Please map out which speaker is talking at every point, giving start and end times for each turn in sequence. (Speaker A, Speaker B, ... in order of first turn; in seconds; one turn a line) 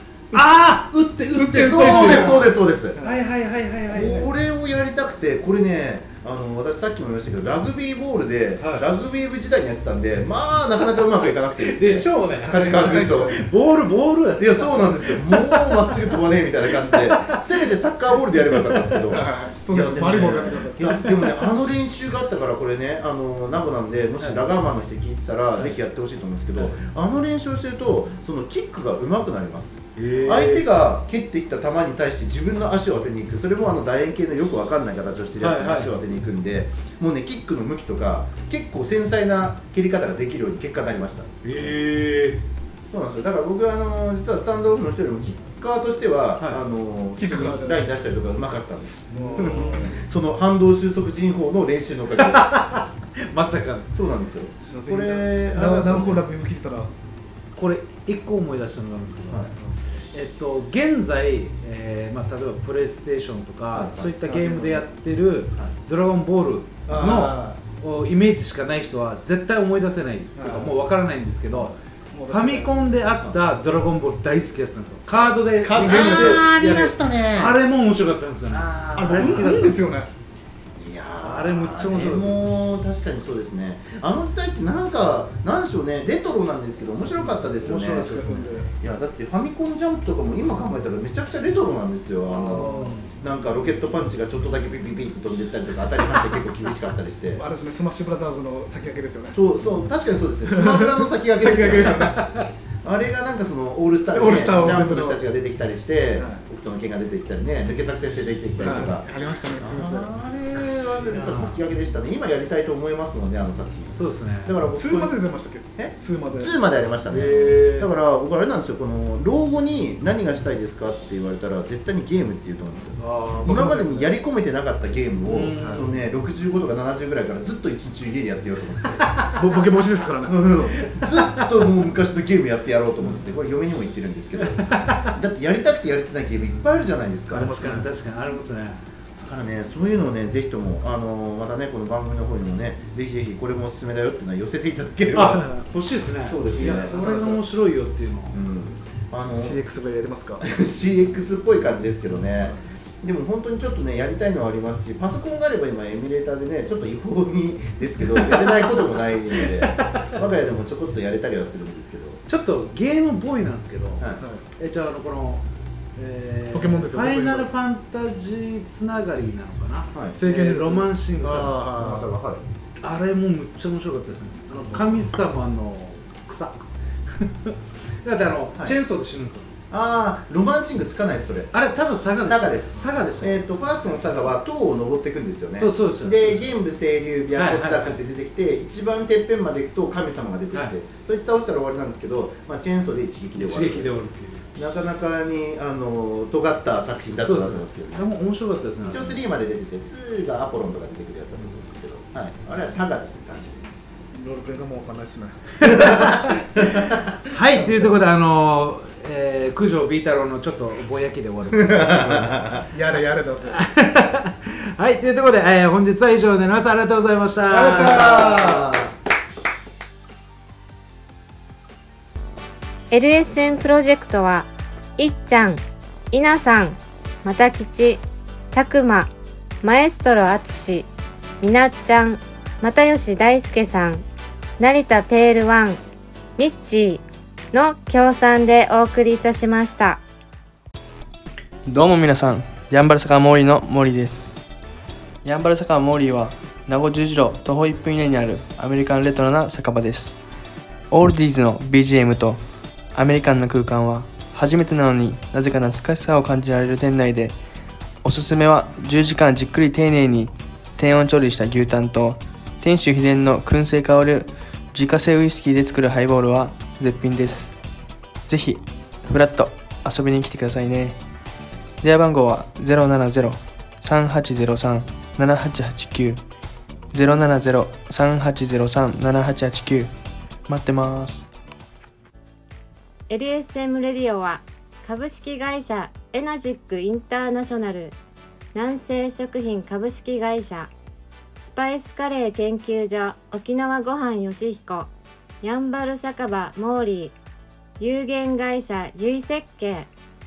Speaker A: 0.3-0.6
Speaker B: 0.3-4.3
Speaker A: 1.2-2.3
Speaker C: 1.6-3.0
Speaker A: 3.0-3.2
Speaker C: 3.9-13.4
Speaker B: 8.6-8.9
Speaker B: 11.6-16.2
Speaker A: 12.5-13.4
Speaker C: 14.4-41.7
Speaker B: 16.8-17.7
Speaker B: 18.5-19.0
Speaker A: 19.1-21.4
Speaker B: 24.2-24.5
Speaker B: 30.0-30.7
Speaker B: 35.4-35.9
Speaker B: 41.4-42.4
Speaker C: 42.9-52.8
Speaker A: 47.2-47.8
Speaker A: 49.1-50.0
Speaker B: 49.3-50.0
Speaker B: 52.2-53.9
Speaker C: 53.9-56.2
Speaker A: 54.6-56.9
Speaker B: 57.5-59.5
Speaker B: 60.1-71.8
Speaker C: 63.7-64.1
Speaker A: 64.2-64.9
Speaker A: 66.9-67.6
Speaker A: 70.4-70.8
Speaker A: 72.1-72.9
Speaker B: 72.3-79.8
Speaker A: 75.5-76.5
Speaker C: 75.8-77.6
Speaker A: 78.9-80.1
Speaker C: 79.2-79.5
Speaker C: 80.8-97.4
Speaker B: 81.2-82.5
Speaker B: 87.1-88.6
Speaker A: 88.0-88.7
Speaker B: 92.3-93.1
Speaker A: 92.5-93.0
Speaker A: 97.3-99.4
Speaker C: 99.3-102.1
Speaker A: 100.5-102.2
Speaker B: 102.0-102.5
Speaker C: 102.8-109.0
Speaker A: 104.1-105.2
Speaker A: 108.6-110.1
Speaker C: 109.6-115.2
Speaker B: 111.1-111.6
Speaker B: 113.9-114.6
Speaker A: 114.8-116.5
Speaker C: 115.8-129.1
Speaker B: 117.1-117.9
Speaker B: 123.0-123.5
Speaker A: 123.5-124.0
Speaker B: 125.2-126.0
Speaker A: 125.6-125.8
Speaker A: 129.2-130.4
Speaker C: 130.2-137.7
Speaker B: 133.0-133.3
Speaker B: 134.4-135.1
Speaker B: 137.3-138.8
Speaker A: 137.4-137.9
Speaker C: 139.2-145.4
Speaker B: 145.1-148.4
Speaker C: 146.2-147.3
Speaker A: 146.7-147.4
Speaker C: 148.3-149.6
Speaker A: 149.3-150.4
Speaker C: 150.4-162.2
Speaker B: 158.0-158.8
Speaker B: 159.4-160.1
Speaker B: 162.3-164.1
Speaker B: 164.6-165.4
Speaker B: 166.0-171.6
Speaker A: 166.5-167.5
Speaker A: 170.2-172.1
Speaker C: 171.4-172.4
Speaker B: 172.8-179.5
Speaker A: 174.5-175.1
Speaker C: 179.7-181.5
Speaker B: 181.5-184.3
Speaker C: 182.2-193.9
Speaker B: 185.5-186.5
Speaker B: 187.3-188.0
Speaker B: 193.4-194.4
Speaker C: 194.6-198.1
Speaker B: 197.1-199.2
Speaker C: 198.8-203.7
Speaker A: 204.1-205.4
Speaker C: 205.6-207.1
Speaker B: 205.8-206.1
Speaker B: 207.3-212.5
Speaker C: 211.5-212.6
Speaker A: 212.7-213.6
Speaker B: 213.4-218.6
Speaker A: 217.5-218.7
Speaker C: 217.7-218.8
Speaker D: 222.9-229.1
Speaker D: 229.6-230.9
Speaker D: 231.4-234.1
Speaker D: 234.6-235.8
Speaker D: 236.4-240.0
Speaker E: 241.7-244.3
Speaker E: 245.2-250.2
Speaker E: 250.9-252.4
Speaker E: 252.9-257.4
Speaker E: 258.0-267.5
Speaker E: 268.3-271.0
Speaker E: 271.8-276.2
Speaker E: 276.9-279.9
Speaker E: 280.5-281.3
Speaker D: 283.1-287.9
Speaker D: 288.5-290.7
Speaker D: 291.4-294.9
Speaker D: 295.4-297.1
Speaker D: 297.8-299.9